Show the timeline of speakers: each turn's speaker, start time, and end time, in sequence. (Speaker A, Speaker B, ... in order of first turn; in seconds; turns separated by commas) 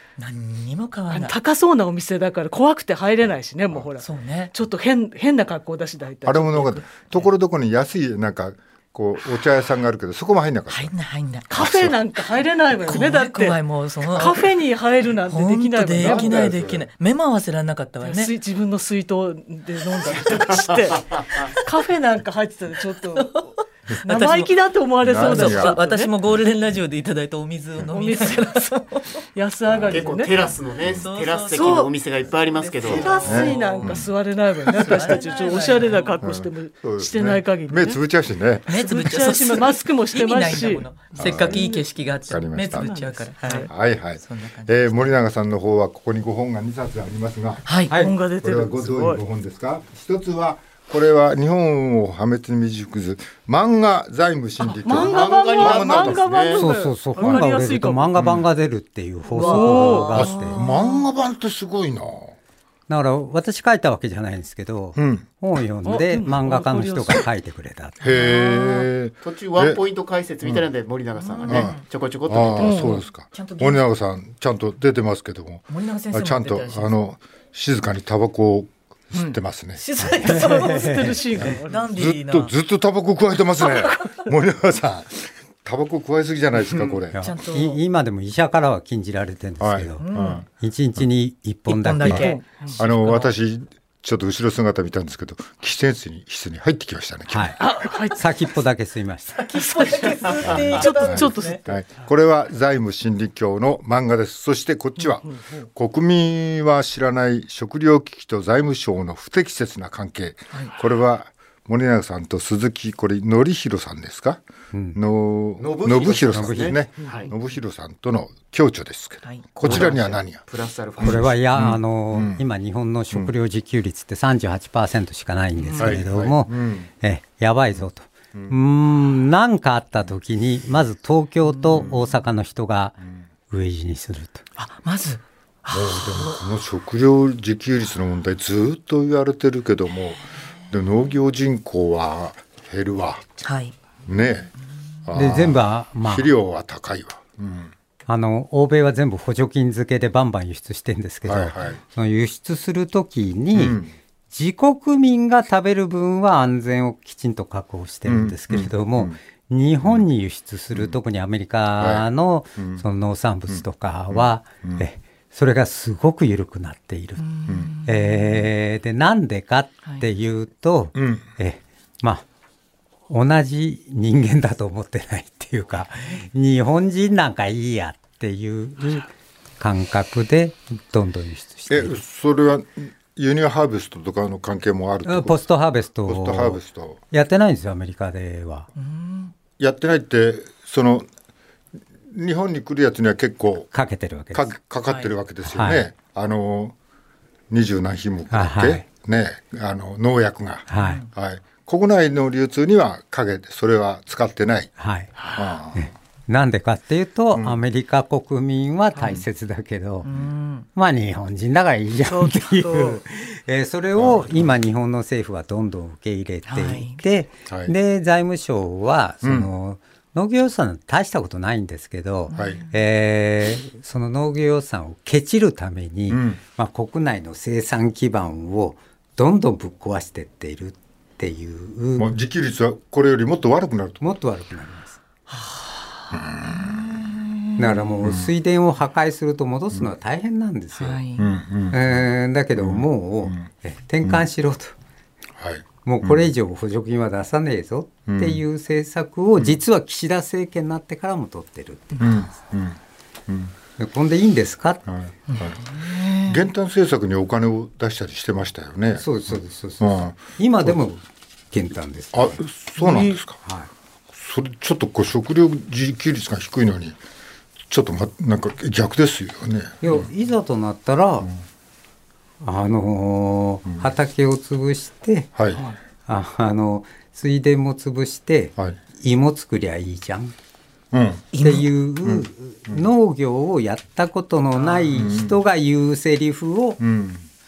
Speaker A: 0.2-1.3, Speaker B: 1.1-7.0, Speaker A: 4.0-4.5, Speaker C: 6.2-10.9, Speaker A: 10.7-11.7, Speaker B: 11.5-16.7, Speaker C: 11.5-12.0, Speaker A: 12.8-14.6, Speaker A: 15.3-18.3, Speaker C: 16.0-16.8, Speaker D: 16.1-16.5, Speaker B: 18.0-23.5, Speaker A: 23.0-23.5, Speaker B: 24.0-26.1, Speaker A: 24.1-24.5, Speaker C: 25.0-25.8, Speaker A: 25.0-29.2, Speaker B: 27.9-28.6, Speaker B: 29.3-30.3, Speaker C: 29.7-30.0, Speaker D: 29.8-33.7, Speaker A: 30.4-34.0, Speaker B: 31.5-31.9, Speaker B: 32.8-38.0, Speaker C: 33.2-34.1, Speaker A: 34.6-36.2, Speaker C: 36.2-38.7, Speaker A: 38.7-45.1, Speaker B: 38.7-41.8, Speaker C: 41.1-41.7, Speaker C: 42.3-42.9, Speaker B: 42.7-43.7, Speaker C: 43.6-47.6, Speaker A: 47.6-47.9, Speaker E: 47.9-48.2, Speaker B: 47.9-49.2, Speaker C: 48.4-56.5, Speaker B: 54.6-58.1, Speaker D: 54.8-56.6, Speaker E: 56.5-60.6, Speaker C: 58.1-58.5, Speaker B: 59.3-60.8, Speaker A: 59.3-60.9, Speaker C: 60.1-62.4, Speaker E: 62.9-68.1, Speaker C: 65.0-65.2, Speaker B: 65.8-67.3, Speaker C: 68.0-69.8, Speaker A: 68.1-68.9, Speaker D: 69.2-73.0, Speaker A: 71.2-71.8, Speaker C: 71.5-79.8, Speaker B: 72.6-73.0, Speaker A: 73.2-73.8, Speaker A: 75.7-76.9, Speaker B: 79.1-81.9, Speaker A: 79.8-82.5, Speaker E: 80.0-81.4, Speaker C: 81.3-87.2, Speaker E: 87.1-92.3, Speaker A: 87.2-87.8, Speaker C: 89.6-90.5, Speaker A: 90.0-90.4, Speaker A: 91.7-93.3, Speaker B: 92.1-92.8, Speaker C: 92.7-98.0, Speaker E: 97.3-99.4, Speaker B: 97.6-98.2, Speaker A: 99.4-101.6, Speaker B: 99.6-101.7, Speaker C: 100.4-114.4, Speaker B: 105.1-105.7, Speaker E: 114.7-115.0, Speaker C: 114.9-120.4, Speaker D: 115.6-117.3, Speaker E: 116.3-116.8, Speaker D: 119.6-121.3, Speaker C: 121.0-122.4, Speaker E: 121.0-134.4, Speaker B: 125.6-125.9, Speaker C: 125.8-126.9, Speaker C: 131.7-132.0, Speaker A: 134.6-136.4, Speaker C: 135.7-143.2, Speaker A: 143.4-143.8, Speaker C: 144.1-144.5, Speaker C: 145.0-147.7, Speaker E: 145.1-146.3, Speaker E: 148.1-172.2, Speaker C: 151.2-151.8, Speaker C: 153.5-153.9, Speaker C: 158.1-159.2, Speaker C: 161.8-162.8, Speaker C: 163.5-164.8, Speaker A: 167.2-168.4, Speaker C: 170.9-171.3, Speaker E: 173.1-182.0, Speaker C: 181.7-185.4, Speaker E: 185.0-188.7, Speaker C: 186.1-187.0, Speaker A: 188.8-189.3, Speaker C: 189.6-191.1, Speaker C: 192.1-193.7, Speaker E: 193.7-194.5, Speaker C: 194.3-196.7, Speaker A: 194.9-195.1, Speaker E: 195.4-195.9, Speaker C: 197.5-204.7, Speaker E: 198.3-198.8, Speaker E: 200.7-201.0, Speaker A: 200.8-201.1, Speaker E: 204.8-205.1, Speaker C: 205.2-205.9, Speaker E: 205.7-210.1, Speaker C: 207.3-207.6, Speaker A: 208.9-209.2, Speaker A: 210.0-210.7, Speaker E: 210.7-232.1, Speaker B: 212.1-213.0, Speaker C: 214.0-214.5, Speaker A: 216.4-217.0, Speaker C: 217.5-217.7, Speaker C: 219.2-219.5, Speaker A: 222.3-222.7, Speaker C: 222.3-222.6, Speaker C: 226.1-226.4, Speaker C: 232.0-234.0, Speaker E: 234.0-235.0, Speaker A: 235.3-237.8, Speaker C: 236.1-236.9, Speaker E: 237.6-241.0, Speaker C: 238.0-238.3, Speaker A: 240.8-241.3, Speaker C: 241.2-243.4, Speaker E: 241.7-244.7, Speaker C: 245.4-246.3, Speaker E: 245.8-252.4, Speaker C: 248.1-248.4, Speaker C: 252.0-253.5, Speaker E: 253.8-254.8, Speaker C: 254.8-255.6, Speaker A: 255.3-256.4, Speaker C: 256.2-260.8, Speaker E: 258.9-262.4, Speaker C: 262.1-263.4, Speaker E: 263.4-263.7, Speaker C: 264.1-267.0, Speaker C: 267.7-270.1, Speaker E: 269.8-271.3, Speaker E: 272.4-275.3, Speaker C: 275.4-275.6, Speaker E: 276.1-280.3, Speaker C: 280.9-281.3, Speaker A: 281.3-281.7, Speaker E: 281.4-286.8, Speaker C: 282.0-282.8, Speaker B: 284.6-284.9, Speaker C: 285.0-285.4, Speaker C: 286.8-287.2